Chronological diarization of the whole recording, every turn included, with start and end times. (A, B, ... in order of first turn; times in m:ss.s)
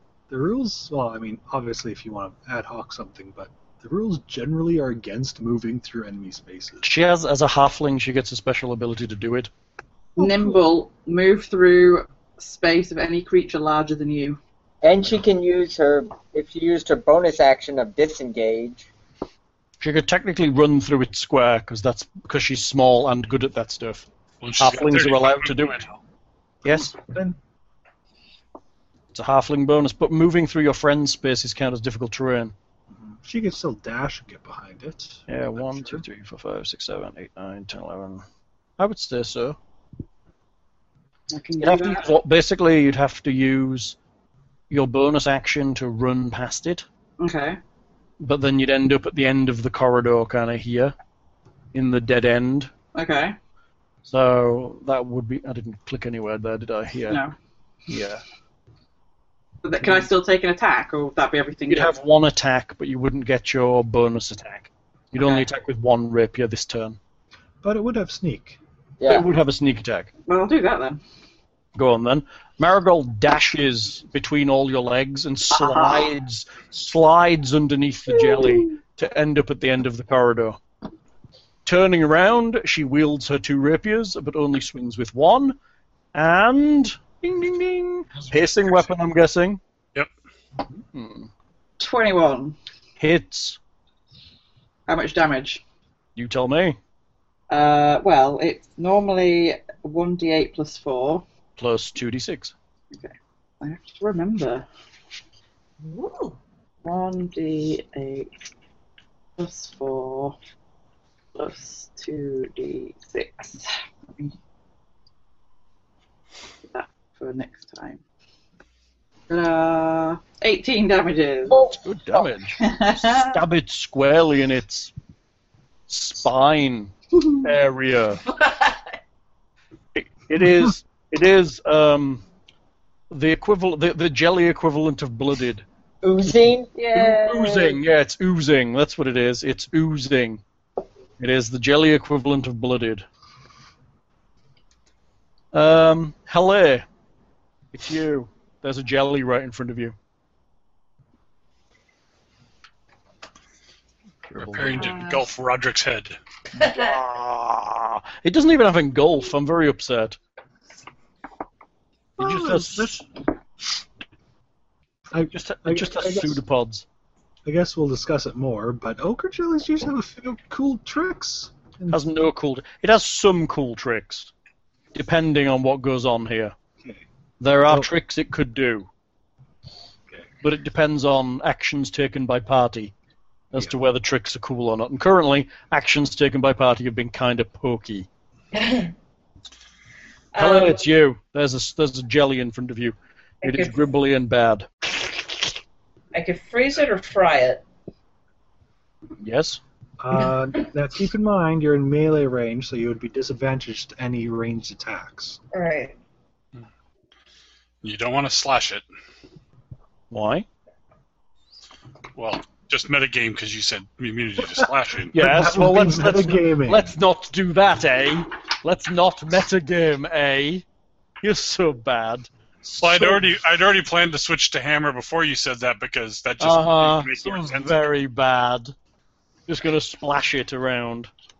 0:00.3-0:06.9 A
0:06.8-0:09.5 B
0:10.2-0:10.6 A
0:10.2-0:14.4 C
0:14.8-0:18.9 D
0:19.8-0:24.1 B
0:24.4-0:26.0 E
0:24.6-0:25.8 B
0:26.6-0:26.9 B
0:26.6-0:27.4 A
0:29.1-0:32.5 B
0:32.9-0:36.0 A
0:35.3-0:38.2 B
0:38.8-0:39.6 B
0:41.3-0:42.1 C
0:41.6-0:44.0 B
0:44.7-0:46.8 B
0:47.2-0:47.6 C
0:48.2-0:50.9 B
0:51.7-0:52.7 B
0:52.9-0:53.3 C
0:54.0-0:57.2 B
0:57.1-0:57.3 C
0:57.9-0:58.2 B
0:59.6-1:02.0 C
1:01.7-1:07.0 B
1:05.1-1:05.5 C
1:07.6-1:08.6 A
1:09.0-1:09.3 D
1:09.0-1:10.1 B
1:10.3-1:11.0 C
1:11.7-1:20.6 B
1:15.5-1:16.1 C
1:18.1-1:18.8 C
1:21.6-1:25.6 B
1:26.1-1:29.6 B
1:30.9-1:31.3 B
1:31.8-1:32.6 C
1:33.0-1:33.6 B
1:34.9-1:35.6 C
1:36.2-1:36.8 B
1:37.5-1:41.2 C
1:41.6-1:42.5 B
1:42.9-1:44.7 C
1:45.8-1:46.4 F
1:46.8-1:48.3 C
1:49.4-1:50.4 C
1:51.3-1:54.3 C
1:56.7-1:58.0 C
1:59.3-2:01.7 C
2:01.7-2:04.9 B
2:02.6-2:03.4 C
2:05.9-2:08.2 B
2:08.3-2:08.8 F
2:09.9-2:12.2 B
2:13.1-2:15.6 B
2:16.0-2:16.7 D
2:16.8-2:17.6 F
2:16.9-2:20.4 B
2:21.2-2:23.1 B
2:25.5-2:26.8 B
2:27.7-2:29.9 B
2:34.2-2:35.0 B
2:34.4-2:36.2 E
2:34.8-2:35.2 F
2:36.6-2:37.0 F
2:36.6-2:40.2 B
2:42.2-2:43.0 B
2:42.2-2:43.0 A
2:45.1-2:46.4 A
2:45.3-2:46.8 B
2:47.4-2:52.1 A
2:51.9-2:54.3 B
2:54.9-2:56.5 B
2:57.4-2:58.9 B
3:00.4-3:02.9 B
3:03.5-3:08.1 B
3:08.5-3:08.9 F
3:10.3-3:10.8 F
3:10.4-3:15.1 B
3:13.4-3:13.8 F
3:16.1-3:17.6 F
3:19.2-3:19.6 B
3:20.0-3:25.4 A
3:25.5-3:26.0 F
3:27.8-3:28.8 E
3:30.1-3:30.5 B
3:32.2-3:35.1 E
3:34.6-3:36.9 A
3:35.1-3:40.6 B
3:41.2-3:43.3 B
3:42.8-3:47.8 E
3:46.4-3:48.7 B
3:49.5-3:51.1 B